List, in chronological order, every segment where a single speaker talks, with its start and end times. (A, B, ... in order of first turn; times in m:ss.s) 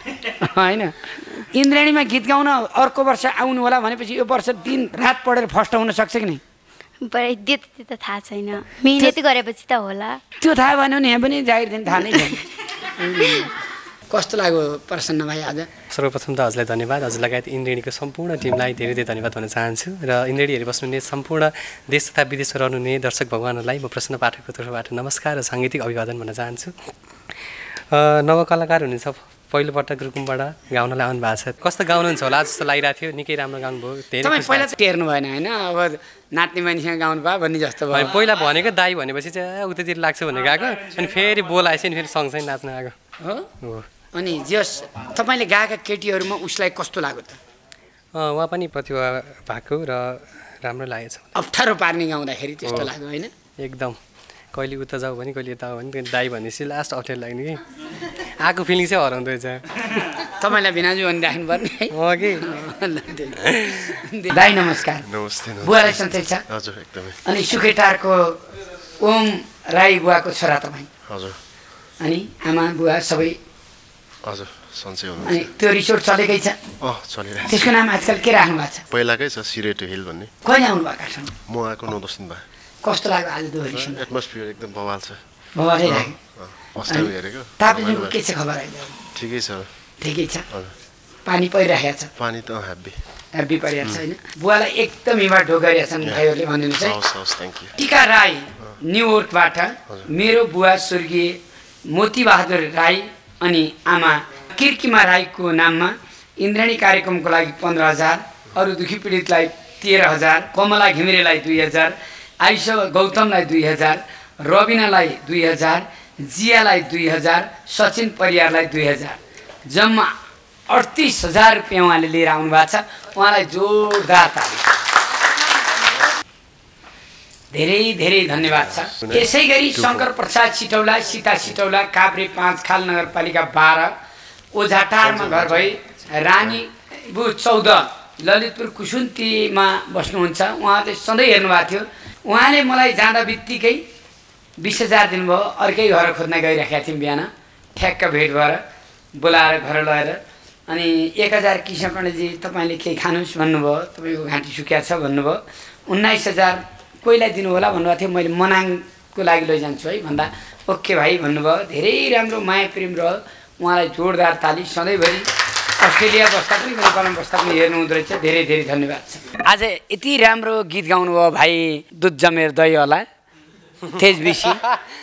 0:00.2-0:06.4 A
0:07.0-0:10.2 B
0:10.4-0:13.5 A
0:13.2-0:13.5 B
0:14.1-0:15.7 A
0:15.9-0:26.7 C
0:27.9-0:34.7 C
0:34.2-0:38.1 A
0:37.9-0:42.9 C
0:43.2-0:43.5 A
0:43.6-0:43.9 C
0:44.1-0:47.4 A
0:48.1-0:51.3 C
0:51.4-0:53.3 A
0:53.6-0:54.0 C
0:54.5-0:57.6 C
0:58.4-0:59.6 C
1:00.2-1:05.1 A
1:01.9-1:02.5 C
1:03.5-1:03.8 C
1:05.1-1:07.2 D
1:05.6-1:06.4 A
1:07.3-1:10.9 A
1:11.1-1:11.4 D
1:12.0-1:13.4 A
1:14.2-1:15.5 D
1:15.2-1:16.6 A
1:16.8-1:17.7 D
1:17.5-1:18.8 A
1:18.9-1:20.3 D
1:20.4-1:21.3 A
1:21.5-1:22.4 D
1:22.8-1:24.1 A
1:23.7-1:28.2 D
1:25.6-1:26.2 A
1:26.9-1:29.0 A
1:29.2-1:29.7 D
1:30.0-1:30.5 A
1:31.3-1:32.1 A
1:32.2-1:33.0 D
1:33.4-1:37.0 A
1:36.8-1:37.8 D
1:37.8-2:00.2 A
2:00.7-2:04.6 A
2:07.5-2:13.9 A
2:08.8-2:10.0 D
2:14.5-2:23.8 A
2:15.1-2:15.7 D
2:24.6-2:28.6 A
2:29.2-2:45.3 A
2:45.8-2:53.0 A
2:53.9-2:54.6 A